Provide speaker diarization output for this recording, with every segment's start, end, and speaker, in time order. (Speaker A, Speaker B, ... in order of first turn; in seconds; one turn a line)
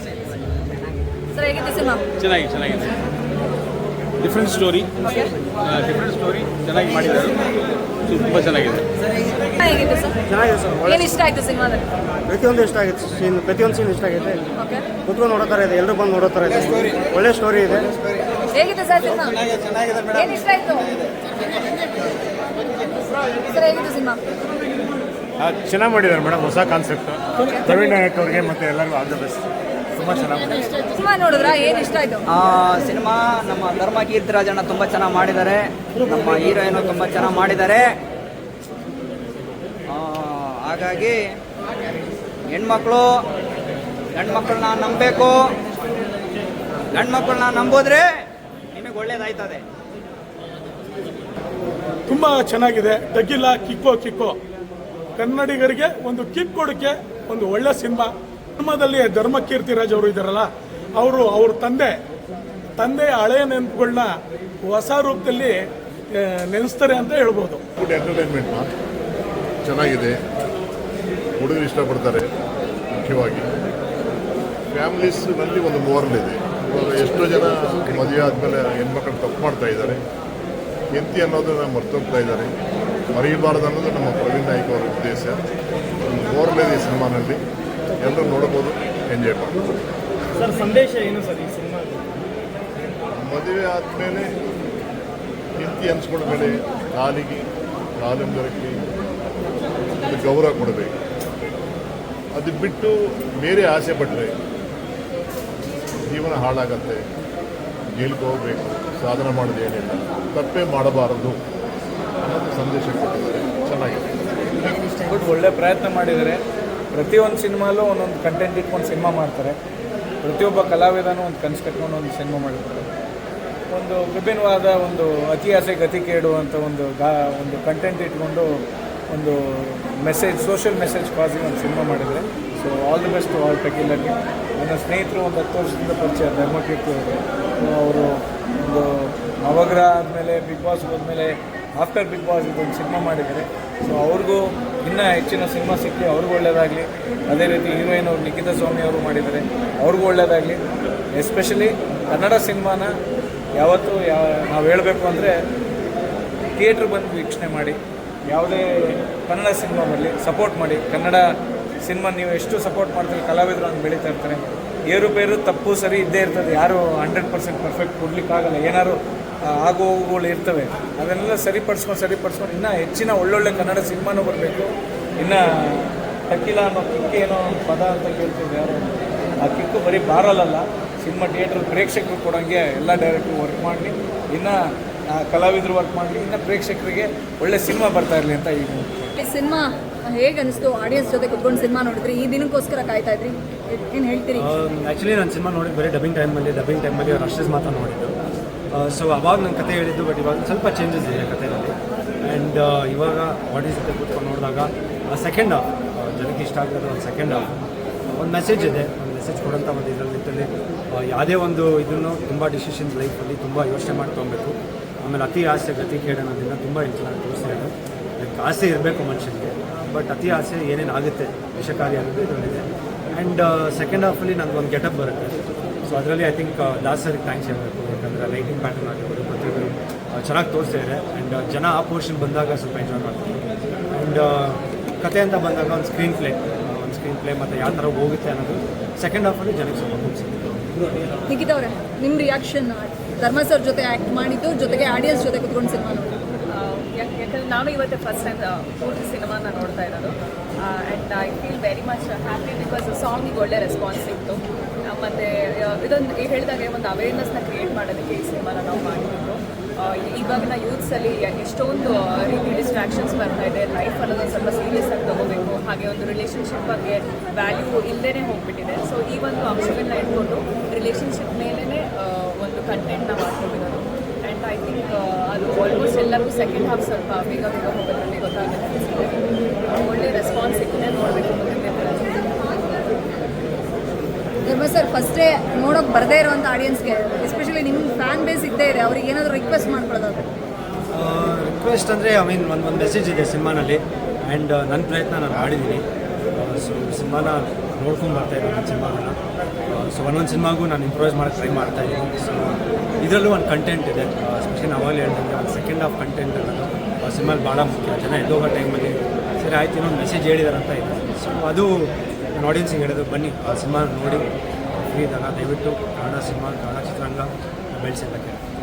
Speaker A: 1.3-2.0
Speaker B: 2.2-3.0
Speaker B: 4.2-5.1
Speaker B: 5.6-7.4
Speaker B: 8.1-8.8
Speaker A: 9.6-10.2
Speaker C: 10.3-11.1
Speaker A: 10.8-11.8
Speaker C: 12.2-14.4
Speaker A: 14.6-14.9
Speaker C: 15.0-18.0
Speaker A: 18.5-19.5
Speaker D: 19.6-20.0
Speaker A: 20.1-20.9
Speaker A: 23.4-24.2
Speaker E: 25.5-27.1
Speaker A: 27.4-27.9
Speaker E: 28.0-29.2
Speaker A: 30.1-32.2
Speaker D: 32.3-37.9
Speaker D: 39.9-41.2
Speaker D: 42.5-43.2
Speaker D: 44.2-45.5
Speaker D: 46.9-48.1
Speaker D: 48.8-49.6
Speaker F: 52.1-54.3
Speaker F: 55.2-58.1
Speaker F: 58.6-60.5
Speaker F: 61.0-61.9
Speaker F: 62.8-64.1
Speaker F: 64.7-65.5
Speaker F: 66.5-67.6
Speaker G: 67.8-68.7
Speaker G: 69.6-70.2
Speaker G: 71.4-72.3
Speaker G: 72.9-73.5
Speaker G: 74.7-80.0
Speaker G: 80.9-82.5
Speaker G: 83.1-85.4
Speaker G: 86.1-87.4
Speaker G: 88.0-89.7
Speaker G: 93.2-94.3
Speaker G: 95.6-97.5
Speaker G: 98.0-98.8
Speaker G: 100.0-101.0
Speaker G: 102.3-104.3
Speaker G: 106.1-107.0
Speaker G: 108.0-111.4
Speaker G: 112.2-114.2
Speaker H: 115.0-119.6
Speaker H: 120.2-122.9
Speaker H: 123.7-128.6
Speaker H: 129.1-150.6
Speaker H: 151.1-153.0
Speaker H: 153.6-155.3
Speaker H: 156.6-161.2
Speaker H: 161.8-169.0
Speaker H: 169.6-184.6
Speaker H: 185.1-189.1
Speaker A: 189.2-194.5
Speaker I: 194.3-198.2
Speaker I: 198.7-207.5
Speaker I: 208.1-233.4
Speaker I: 233.9-240.6
Speaker A: 241.3-246.2
Speaker J: 246.5-279.2
Speaker J: 279.7-282.1
Speaker A: 284.5-290.3
Speaker I: 290.9-299.2
Speaker I: 299.7-318.4